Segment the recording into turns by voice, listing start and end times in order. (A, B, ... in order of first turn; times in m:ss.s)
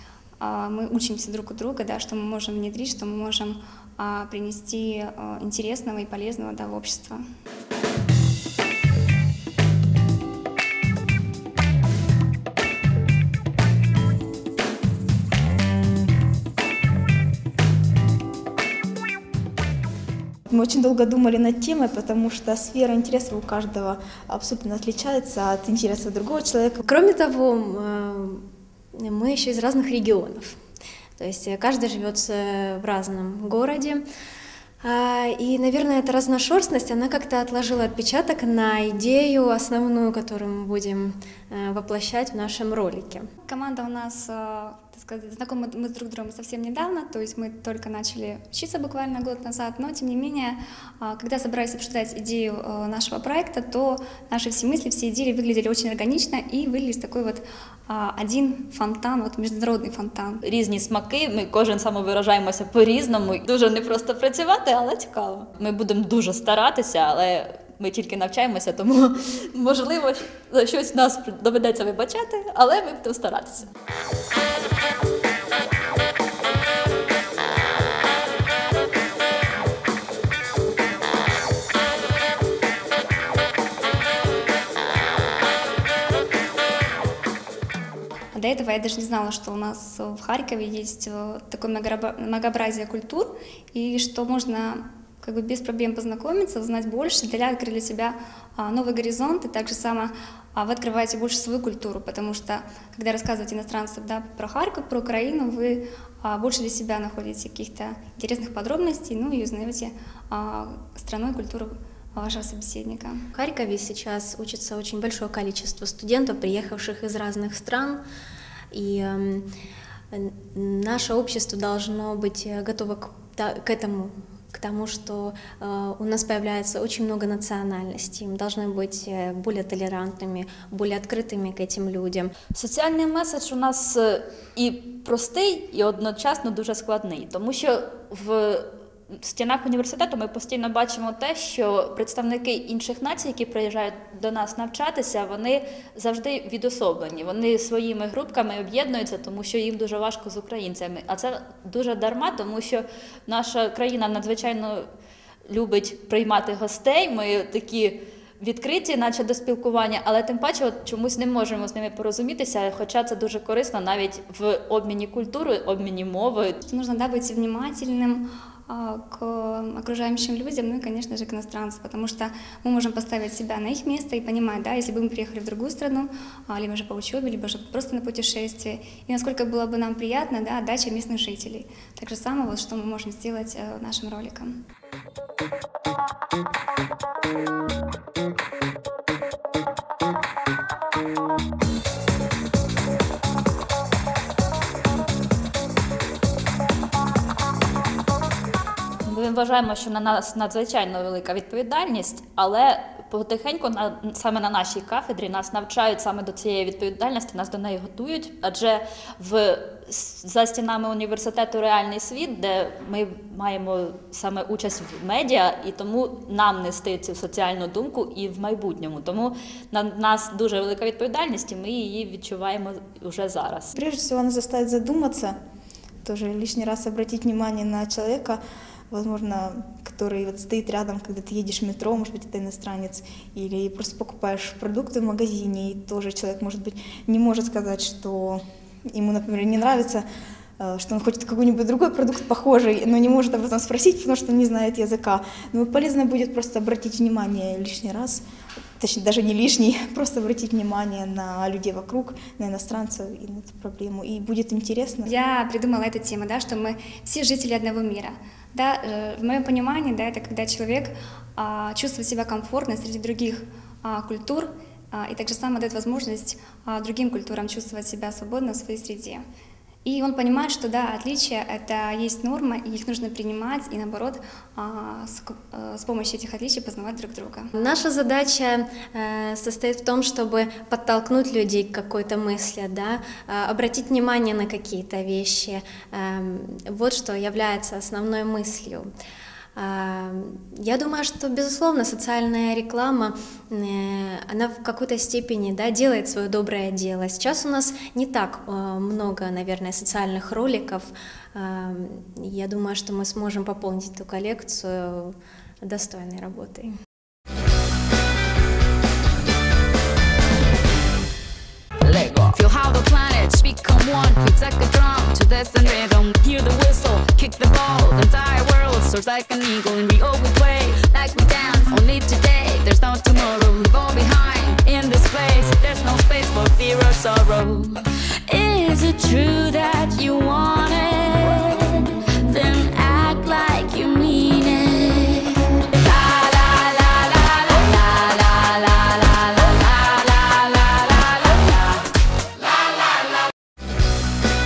0:00.4-0:07.2 A
0:20.5-0:26.8 B
0:26.8-0:30.6 C
0:31.2-0:34.0 C
0:34.8-0:43.3 C
0:43.4-1:00.4 A
1:00.4-1:13.7 D
1:28.3-1:53.1 A
1:53.3-1:58.0 C
1:58.7-1:59.5 C
2:00.1-2:12.3 C
2:12.5-2:34.9 D
2:35.5-2:46.6 D
2:46.6-3:04.5 A
3:19.0-3:43.7 D
3:43.7-3:45.4 B
3:46.0-4:00.0 B
4:00.6-4:08.2 B
4:08.8-4:15.1 B
4:15.1-4:29.2 A
4:29.8-4:37.5 A
4:37.6-4:48.9 C
4:49.5-5:06.7 C
5:11.8-5:41.8 E
5:42.6-5:42.9 E